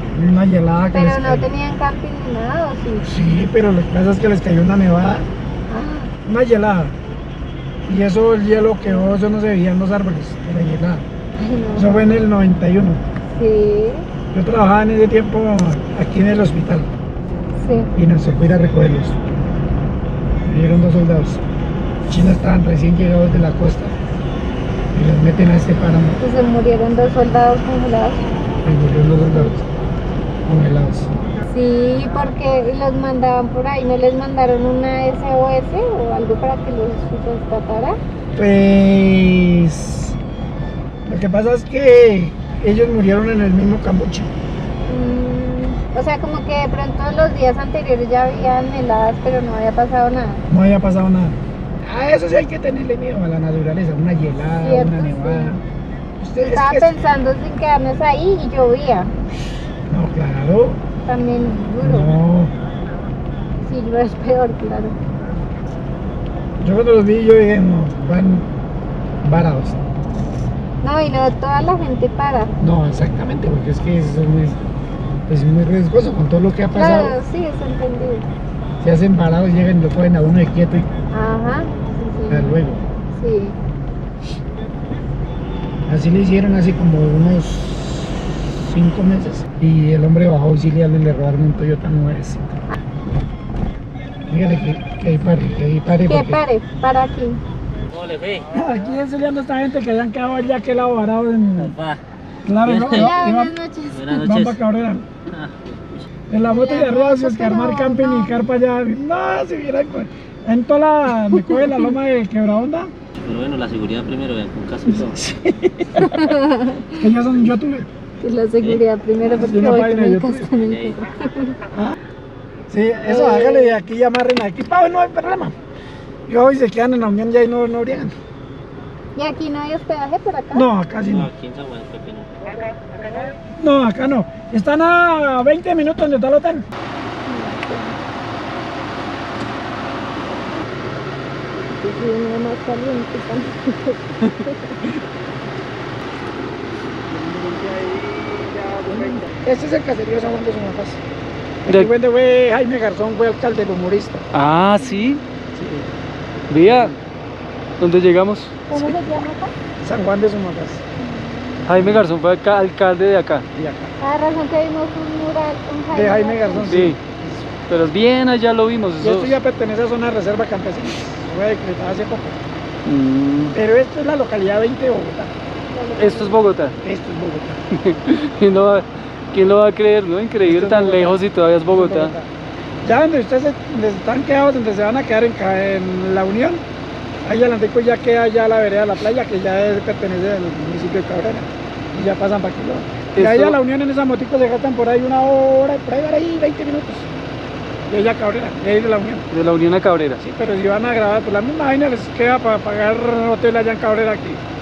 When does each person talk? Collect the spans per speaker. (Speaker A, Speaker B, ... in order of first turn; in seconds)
Speaker A: 0.1-1.5, 3.0-5.3, 6.3-7.0, 7.9-11.1, 11.8-13.0, 14.3-16.9, 17.9-19.2, 20.4-21.4, 22.1-23.9, 24.9-26.2, 28.6-29.7, 30.5-31.1, 38.4-40.2, 41.1-44.3, 50.5-55.6, 56.2-56.9, 59.9-60.8, 61.8-62.5, 66.6-68.5, 69.2-69.8, 72.6-74.6, 75.3-77.2, 78.8-80.9, 82.3-82.8, 85.9-88.1, 88.6-92.5, 94.3-96.4, 98.5-101.8, 102.5-103.5, 104.1-105.0, 106.3-112.9, 114.9-116.3, 117.0-117.9, 119.3-120.5, 122.7-125.5, 126.3-128.2, 130.5-131.3, 133.6-136.6, 148.9-151.0, 151.6-154.2, 155.6-155.9, 156.7-157.0, 159.8-160.8, 163.6-163.9, 165.9-167.4, 169.0-172.4, 173.5-175.3, 176.8-177.6, 180.4-182.3, 182.8-186.6, 187.2-197.1, 197.9-199.3, 200.2-204.4
Speaker B: 0.9-3.1, 5.7-6.1, 11.4-12.1, 13.3-14.1, 17.6-17.9, 26.2-28.2, 31.5-38.0, 44.9-50.4, 54.5-55.5, 56.4-59.1, 61.0-62.1, 63.6-65.0, 70.8-72.5, 76.8-78.3, 81.1-82.6, 83.1-83.6, 96.1-97.4, 102.9-104.1, 106.5-108.4, 111.3-111.9, 116.0-117.1, 118.2-121.6, 123.1-123.8, 129.2-130.7, 137.3-138.0, 141.6-144.8, 148.9-149.2, 154.8-155.2, 158.7-159.5, 161.0-161.7, 164.0-166.8, 175.7-176.4
Speaker C: 97.9-98.5, 101.6-102.0, 102.6-103.2, 103.9-104.6, 105.3-106.0, 113.2-115.2, 120.6-121.0, 131.1-133.3
Speaker D: 154.3-155.2, 156.5-156.9, 157.8-158.9, 161.7-163.5, 166.7-167.0, 167.6-169.4, 172.9-173.6, 176.0-176.8, 177.7-182.1, 193.2-193.6, 199.3-200.2